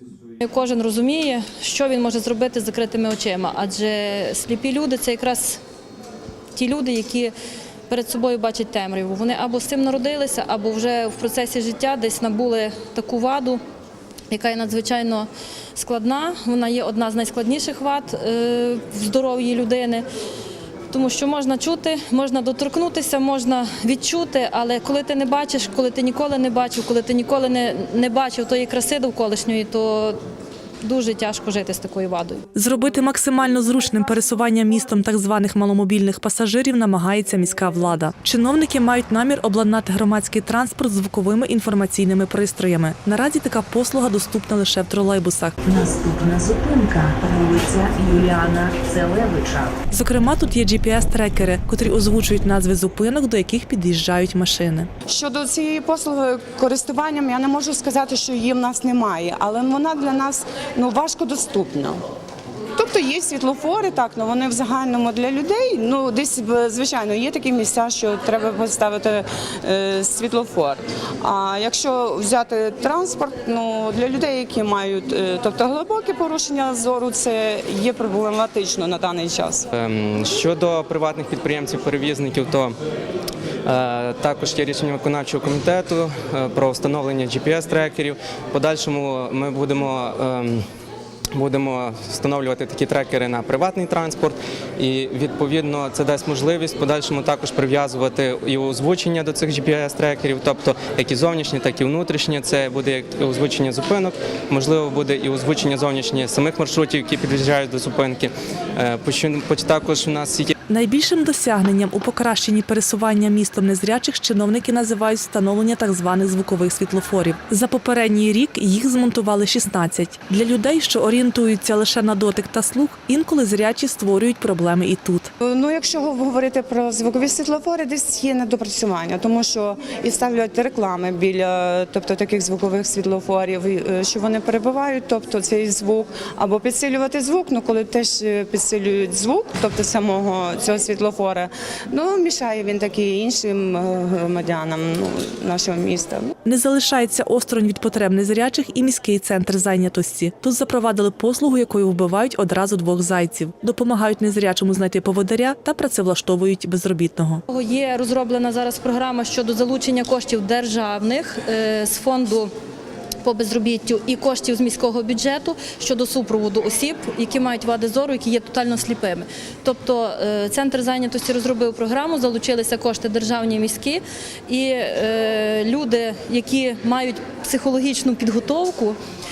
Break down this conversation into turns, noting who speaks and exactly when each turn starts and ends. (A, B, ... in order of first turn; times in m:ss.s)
0:00.4-0:05.6 A
0:06.5-0:07.3 A
0:07.9-0:13.6 A
0:14.3-0:20.0 A
0:20.9-0:30.2 A
0:30.8-0:32.4 A
0:32.6-0:45.7 B
0:45.7-0:49.8 C
0:49.9-0:54.9 B
0:55.1-1:02.0 D
1:02.8-1:19.7 D
1:19.7-1:22.8 E
1:23.6-1:30.6 E
1:31.3-1:50.5 E
1:50.7-2:05.3 B
2:05.4-2:26.3 D
2:26.4-2:37.4 B
2:37.5-2:42.5 A
2:43.2-2:59.0 A